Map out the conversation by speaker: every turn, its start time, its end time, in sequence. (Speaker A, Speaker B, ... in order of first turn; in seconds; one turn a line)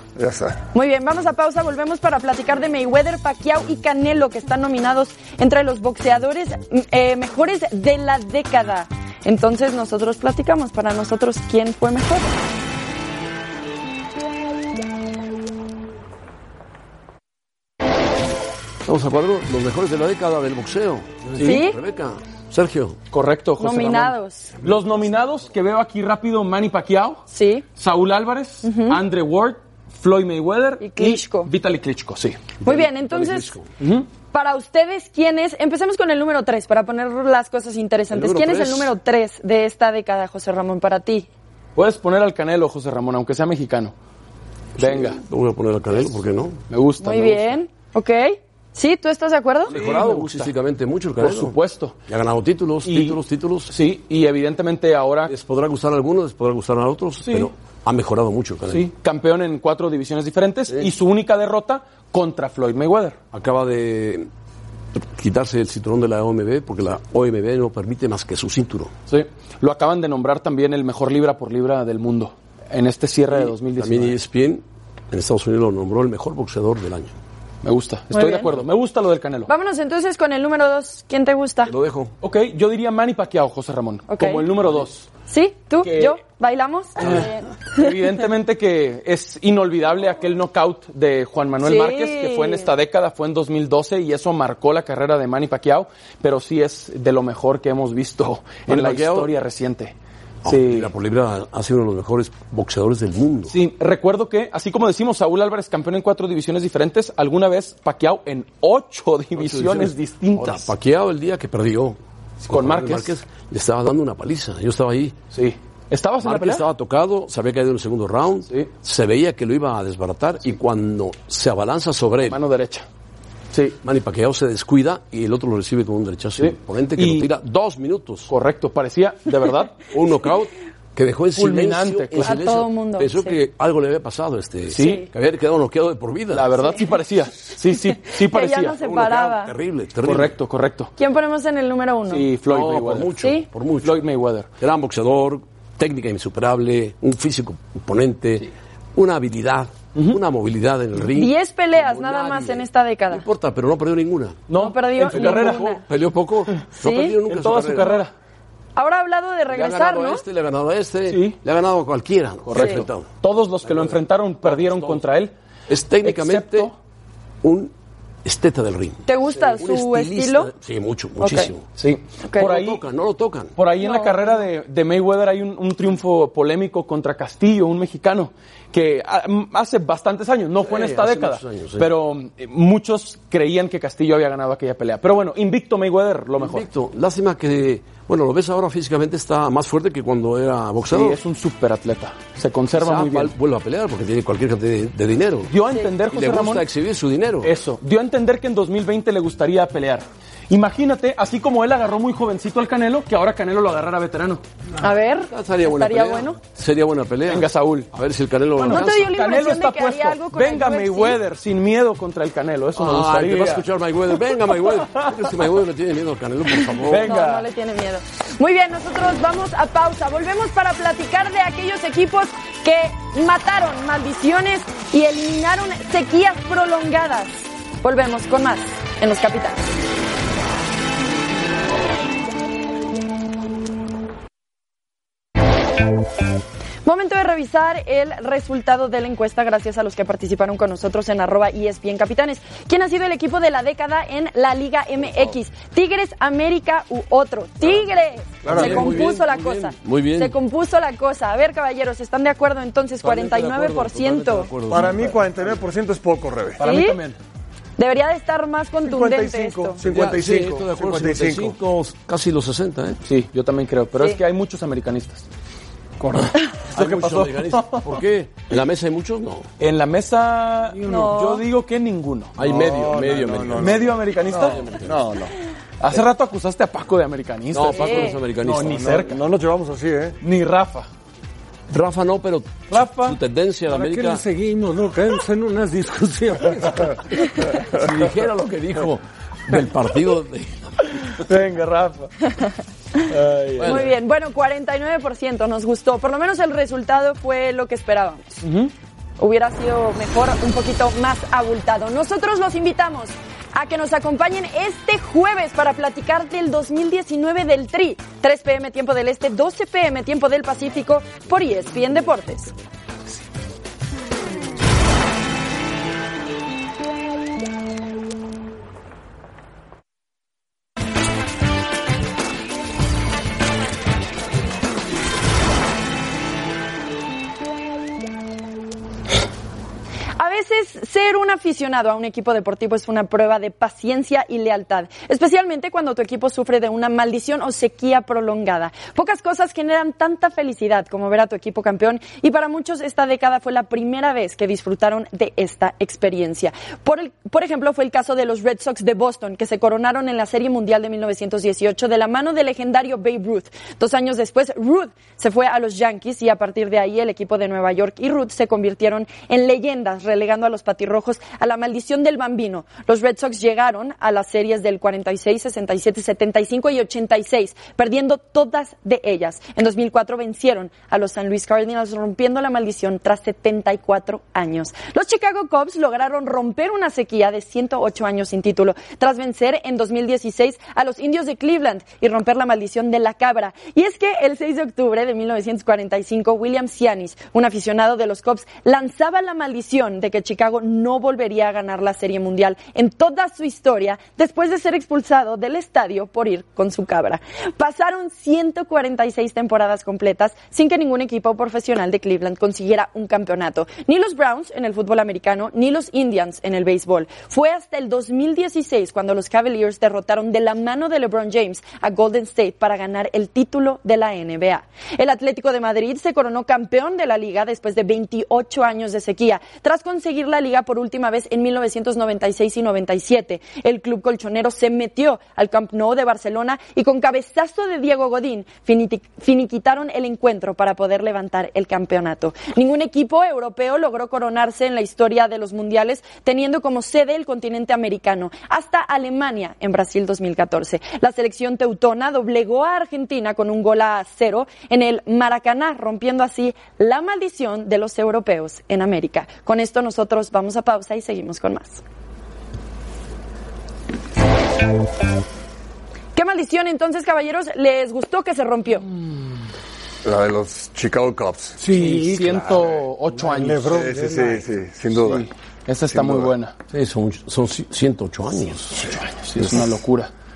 Speaker A: 0.1-0.7
Speaker B: 0.7-12.3
Speaker C: 18.8-23.0
Speaker B: 21.4-21.8
Speaker D: 23.1-32.4
Speaker B: 23.6-24.5
Speaker B: 27.3-27.6
Speaker B: 28.6-29.0
Speaker B: 30.8-31.5
Speaker B: 32.6-33.5
Speaker C: 32.6-33.6
Speaker D: 33.8-34.1
Speaker B: 34.3-41.3
Speaker C: 38.1-38.9
Speaker D: 41.8-43.9
Speaker D: 44.8-45.2
Speaker C: 44.8-46.6
Speaker D: 46.7-47.6
Speaker B: 47.0-49.7
Speaker D: 49.7-50.5
Speaker C: 49.7-53.7
Speaker D: 51.2-51.9
Speaker D: 52.8-55.3
Speaker C: 55.3-58.9
Speaker D: 57.2-57.5
Speaker D: 58.7-63.2
Speaker C: 63.3-64.3
Speaker C: 64.9-68.9
Speaker D: 69.1-74.2
Speaker C: 73.3-77.1
Speaker D: 77.6-79.5
Speaker B: 78.1-78.5
Speaker B: 79.5-81.7
Speaker C: 81.7-82.1
Speaker D: 82.2-85.1
Speaker B: 84.1-84.5
Speaker B: 85.2-87.9
Speaker D: 85.8-86.2
Speaker D: 87.0-100.9
Speaker B: 91.6-92.7
Speaker C: 98.7-99.3
Speaker C: 100.4-103.5
Speaker D: 103.5-110.7
Speaker C: 109.3-115.2
Speaker D: 112.4-113.2
Speaker D: 115.3-116.6
Speaker C: 116.2-122.4
Speaker D: 122.3-122.8
Speaker D: 123.5-123.8
Speaker C: 123.8-128.3
Speaker D: 126.4-127.3
Speaker D: 128.3-129.8
Speaker C: 129.9-136.5
Speaker D: 131.3-132.3
Speaker B: 132.2-133.3
Speaker D: 134.7-135.0
Speaker B: 134.8-135.0
Speaker D: 136.3-138.8
Speaker B: 138.2-139.5
Speaker C: 138.8-140.3
Speaker D: 140.0-140.9
Speaker B: 141.0-142.3
Speaker D: 142.1-143.1
Speaker C: 142.5-144.0
Speaker B: 143.2-143.4
Speaker D: 143.8-144.5
Speaker C: 144.6-154.5
Speaker B: 151.1-153.2
Speaker D: 154.5-155.8
Speaker B: 154.5-155.8
Speaker C: 155.1-158.0
Speaker B: 156.8-157.2
Speaker D: 157.3-158.1
Speaker B: 158.8-160.2
Speaker C: 159.5-163.1
Speaker D: 161.1-161.4
Speaker D: 162.4-165.3
Speaker C: 163.6-165.0
Speaker C: 165.7-166.7
Speaker D: 166.0-166.7
Speaker C: 167.4-167.7
Speaker C: 168.2-171.6
Speaker B: 169.1-170.5
Speaker B: 171.2-171.5
Speaker D: 171.7-172.8
Speaker C: 172.4-173.5
Speaker D: 173.6-186.7
Speaker B: 173.8-174.4
Speaker C: 180.6-181.9
Speaker C: 186.4-191.2
Speaker D: 190.9-193.3
Speaker C: 192.7-195.5
Speaker D: 195.5-196.7
Speaker C: 196.1-197.5
Speaker D: 197.4-204.4
Speaker B: 204.8-206.4
Speaker C: 205.3-209.1
Speaker D: 207.3-207.9
Speaker D: 208.6-213.7
Speaker B: 208.7-211.2
Speaker C: 212.7-217.1
Speaker D: 214.9-215.3
Speaker D: 216.9-217.5
Speaker B: 216.9-229.6
Speaker B: 236.8-254.7
Speaker A: 248.4-249.0
Speaker C: 248.4-250.3
Speaker C: 253.0-255.3
Speaker A: 254.7-256.6
Speaker D: 256.6-257.2
Speaker B: 256.6-257.0
Speaker B: 257.8-259.8
Speaker A: 258.8-261.5
Speaker C: 259.8-263.0
Speaker D: 263.0-265.2
Speaker C: 266.1-269.5
Speaker D: 266.7-267.9
Speaker D: 269.6-272.3
Speaker B: 270.8-271.4
Speaker C: 272.4-275.1
Speaker A: 272.4-275.3
Speaker D: 273.6-274.6
Speaker D: 275.8-279.1
Speaker C: 277.5-278.9
Speaker B: 277.8-278.2
Speaker A: 278.7-280.2
Speaker D: 280.2-280.9
Speaker C: 281.7-284.2
Speaker D: 282.7-283.2
Speaker E: 283.7-287.3
Speaker C: 287.6-291.0
Speaker D: 291.0-292.1
Speaker D: 293.1-293.9
Speaker C: 293.6-293.9
Speaker B: 293.6-298.4
Speaker D: 298.4-298.7
Speaker B: 299.2-312.5
Speaker B: 330.2-451.8
Speaker B: 456.1-458.8
Speaker A: 460.0-461.6
Speaker E: 461.6-464.4
Speaker D: 461.7-463.8
Speaker A: 463.7-465.2
Speaker D: 464.9-466.5
Speaker A: 465.9-466.3
Speaker C: 466.7-468.8
Speaker A: 468.8-469.6
Speaker D: 468.9-470.1